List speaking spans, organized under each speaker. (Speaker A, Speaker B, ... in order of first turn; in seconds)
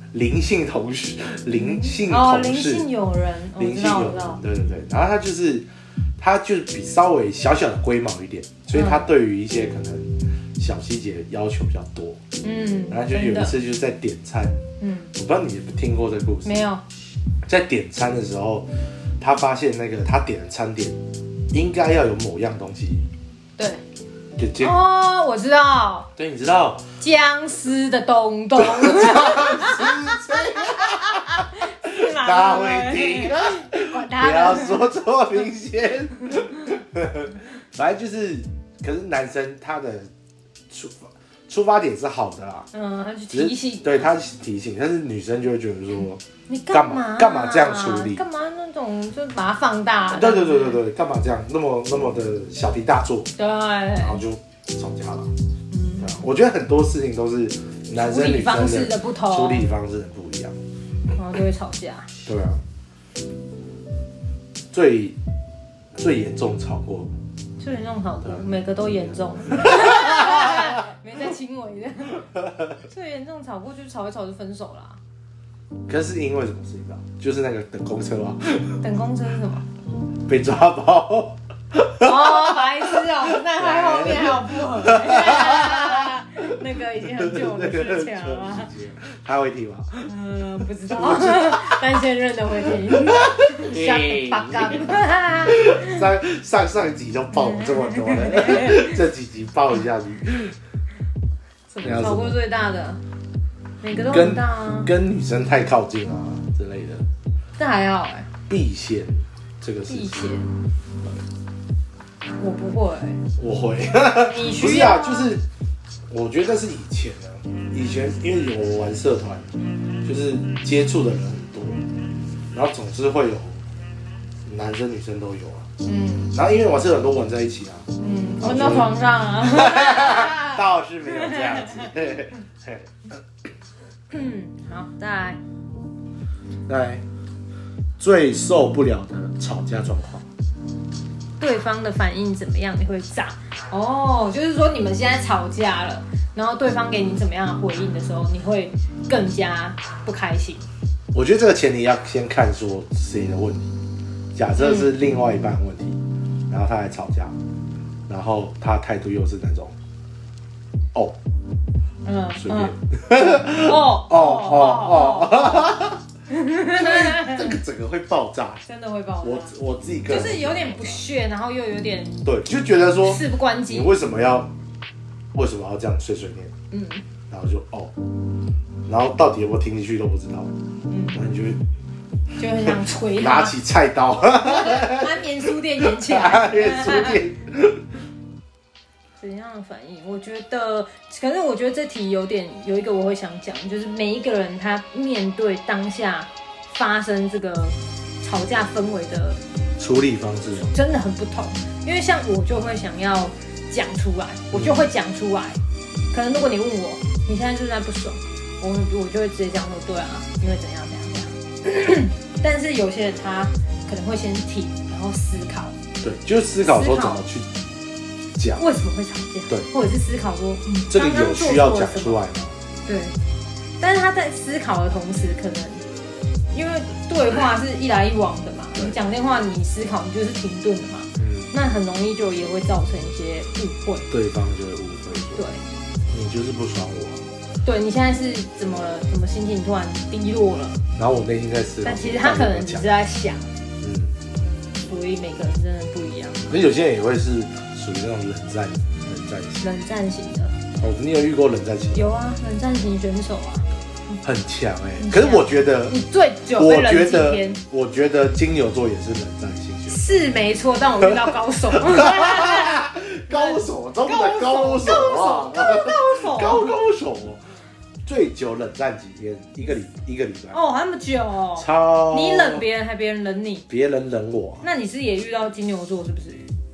Speaker A: 0.1-2.9, 3.6-5.7, 6.2-12.2, 12.9-14.6, 15.1-16.5, 17.4-21.0, 21.5-23.1, 24.4-24.8, 26.2-26.8, 28.6-40.1, 40.7-42.7, 43.3-48.2, 50.1-53.3, 54.0-55.3, 56.0-60.5, 62.2-62.6, 64.7-65.2, 66.0-67.1, 69.5-70.8, 75.9-78.8, 80.2-86.4, 87.0-90.1, 90.9-91.8, 92.9-94.8, 95.5-100.5, 101.8-102.4, 104.1-107.0, 108.5-110.4, 113.4-115.4, 116.1-119.5, 120.0-121.8, 122.5-123.6, 124.5-125.7, 126.3-127.9, 128.4-132.9, 136.7-137.0, 138.0-140.3, 151.1-153.7, 154.3-157.3, 158.1-159.7, 162.3-166.0, 166.6-168.6, 169.2-171.0, 172.2-174.5, 175.3-176.5, 177.3-177.9, 178.8-180.5, 181.1-181.6, 182.6-185.2, 185.8-187.8, 199.8-200.7, 204.5-204.8, 216.0-217.5, 218.3-218.6, 220.9-222.6, 231.2-231.5, 234.1-235.4, 236.1-237.3, 240.9-242.9, 243.8-244.1, 246.5-249.6, 250.8-252.1, 254.2-255.9, 256.6-260.2, 261.7-267.4, 268.0-270.6, 271.6-272.6, 273.7-274.6
Speaker B: 1.6-4.4, 8.7-9.1, 12.4-13.6, 14.8-15.1, 16.4-16.8, 23.6-23.8, 24.6-26.1, 27.0-34.9, 42.7-44.1, 46.5-50.8, 53.4-54.2, 55.7-56.2, 57.9-59.7, 61.1-62.1, 67.6-75.0, 78.8-79.7, 82.0-88.7, 90.0-96.0, 97.3-99.0, 101.7-103.0, 103.8-104.9, 107.6-108.3, 109.9-110.5, 112.4-113.2, 114.2-115.3, 125.8-126.3, 128.0-131.9, 134.1-135.4, 141.4-150.7, 154.6-154.9, 162.0-162.7, 163.3-165.8, 166.3-167.6, 168.6-169.5, 170.1-172.2, 173.0-173.9, 176.7-177.0, 180.9-181.2, 182.4-183.5, 184.4-187.2, 189.2-199.4, 200.5-205.6, 206.1-215.8, 216.6-217.2, 218.6-222.2, 222.8-223.2, 223.8-225.9, 226.5-234.1, 235.3-235.6, 237.6-240.8, 241.8-243.5, 244.8-246.5, 249.6-250.6, 251.9-254.2, 255.0-257.6, 259.9-266.7, 270.5-273.6, 274.6-276.4